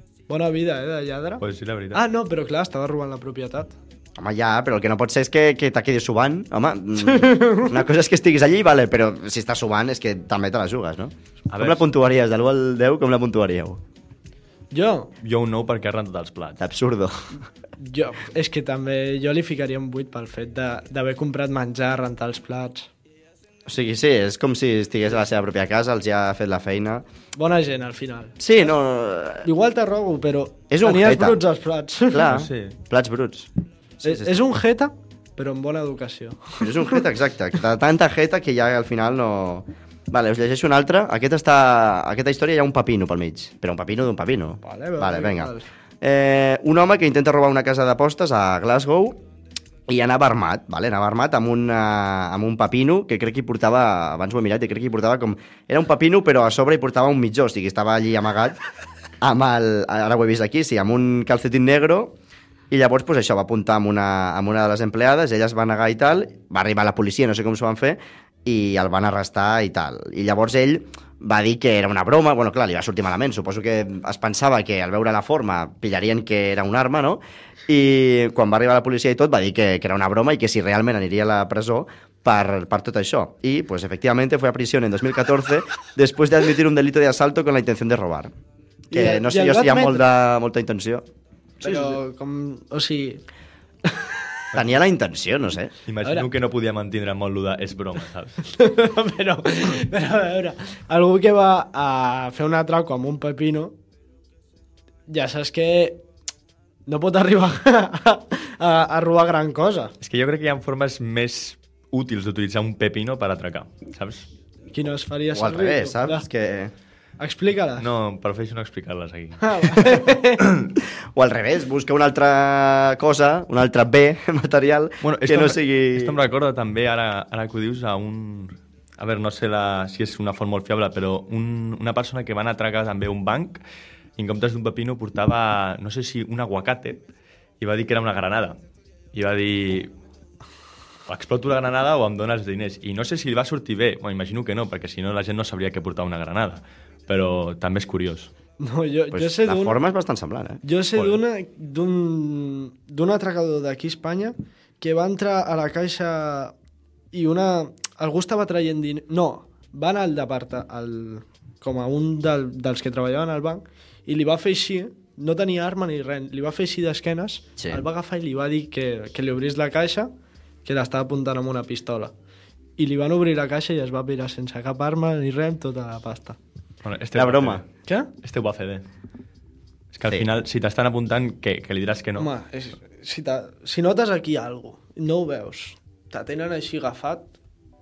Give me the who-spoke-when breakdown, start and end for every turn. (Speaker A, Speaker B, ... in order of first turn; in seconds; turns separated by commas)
Speaker A: 0.3-3.7, Speaker B: 1.4-2.0, Speaker C: 4.2-13.8, Speaker A: 7.0-7.8, Speaker B: 11.5-11.8, Speaker A: 14.7-15.1, Speaker B: 15.2-16.6, Speaker C: 16.6-17.4, Speaker A: 17.8-22.9, Speaker C: 23.7-27.1, Speaker A: 27.4-28.4, Speaker C: 28.4-29.5, Speaker A: 29.4-32.4, Speaker C: 30.7-31.4, Speaker C: 32.1-34.4, Speaker B: 32.3-32.8, Speaker A: 34.0-37.0, Speaker C: 36.6-49.2, Speaker A: 44.6-45.7, Speaker C: 49.9-58.6, Speaker C: 59.2-62.1, Speaker C: 62.7-88.3, Speaker C: 88.9-91.0, Speaker A: 88.9-90.1, Speaker C: 91.6-92.0, Speaker A: 91.6-93.2, Speaker A: 93.9-94.2, Speaker C: 94.5-95.7, Speaker B: 95.9-98.4, Speaker A: 96.0-96.3, Speaker A: 98.4-103.7, Speaker A: 105.1-106.0, Speaker A: 106.9-109.9, Speaker B: 110.0-114.3, Speaker A: 114.7-116.3, Speaker C: 115.3-116.7, Speaker A: 117.2-117.9, Speaker B: 117.8-120.7, Speaker A: 119.4-120.4, Speaker C: 121.2-126.2, Speaker B: 125.0-133.6, Speaker B: 134.2-137.0, Speaker B: 137.6-138.6, Speaker B: 139.1-139.9, Speaker B: 141.1-148.3, Speaker A: 148.6-149.8, Speaker C: 149.1-150.6, Speaker A: 150.6-156.5, Speaker B: 151.0-151.2, Speaker A: 157.1-170.1, Speaker C: 167.6-167.8, Speaker A: 170.7-172.1, Speaker A: 172.8-176.4, Speaker B: 176.8-177.7, Speaker C: 177.2-177.6, Speaker A: 177.9-178.1, Speaker B: 178.2-178.8, Speaker B: 179.9-182.3, Speaker A: 182.2-187.3